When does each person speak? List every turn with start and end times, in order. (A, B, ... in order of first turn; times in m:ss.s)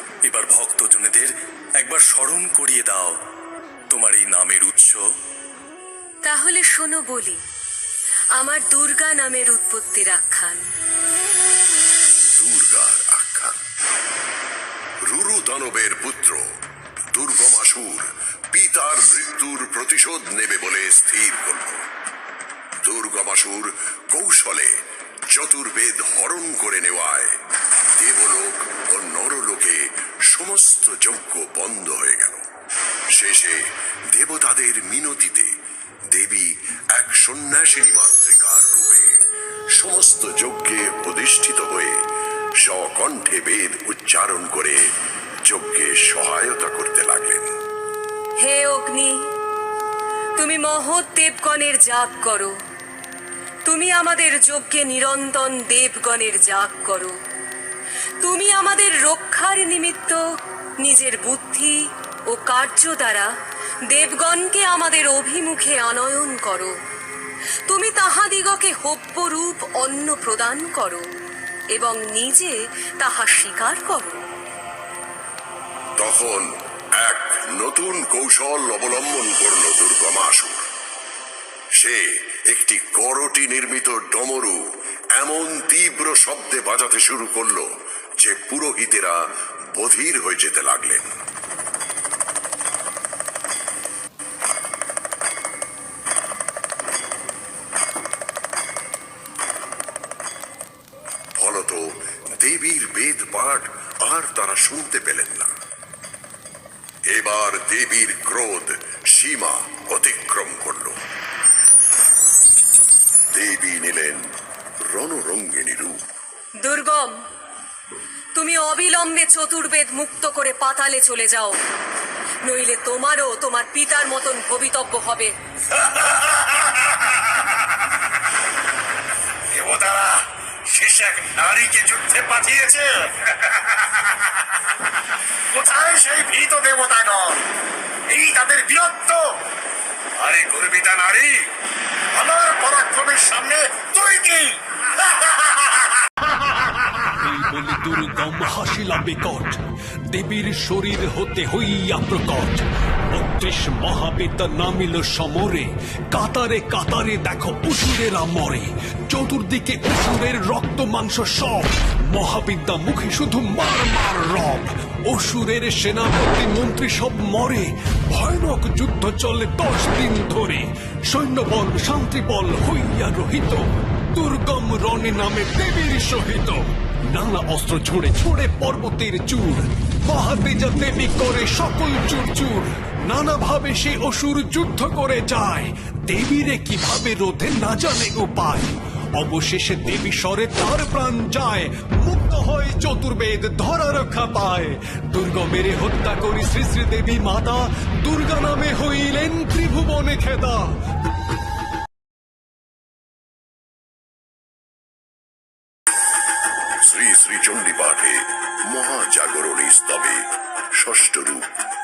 0:00.2-0:03.2 A
0:03.9-0:05.1 A
0:06.2-0:07.4 B
0:08.3-0:10.7 B
0:12.3-0:13.6 C
0:15.0-0:16.5 C
0:17.1-0:21.8 C
0:22.8-0:27.4 C
0:28.0-0:32.4 C
0:33.1-0:35.5 C
0:36.1-0:39.2 C
0:39.7-0:42.0 C
0:42.6-0:44.9 C
0:45.4-0:47.5 C
0:48.4-0:49.3 B
0:50.4-0:52.6 B
0:53.6-0:57.2 B
0:58.2-1:00.2 B
1:00.8-1:03.3 B
1:03.9-1:06.7 B
1:07.7-1:11.0 B
1:11.7-1:14.2 B
1:16.0-1:20.7 C
1:21.8-1:31.1 C
1:41.3-1:45.5 C
1:47.1-1:51.0 C
1:53.3-1:56.0 C
1:56.6-1:57.2 B
1:58.3-2:01.6 B
2:02.4-2:05.8 B
2:05.8-2:07.6 D
2:09.5-2:14.4 D
2:15.5-2:17.5 D
2:18.1-2:19.4 D
2:20.1-2:21.5 D
2:22.1-2:27.1 D
2:27.2-2:29.6 E
2:30.1-3:20.7 E
3:26.8-3:31.5 C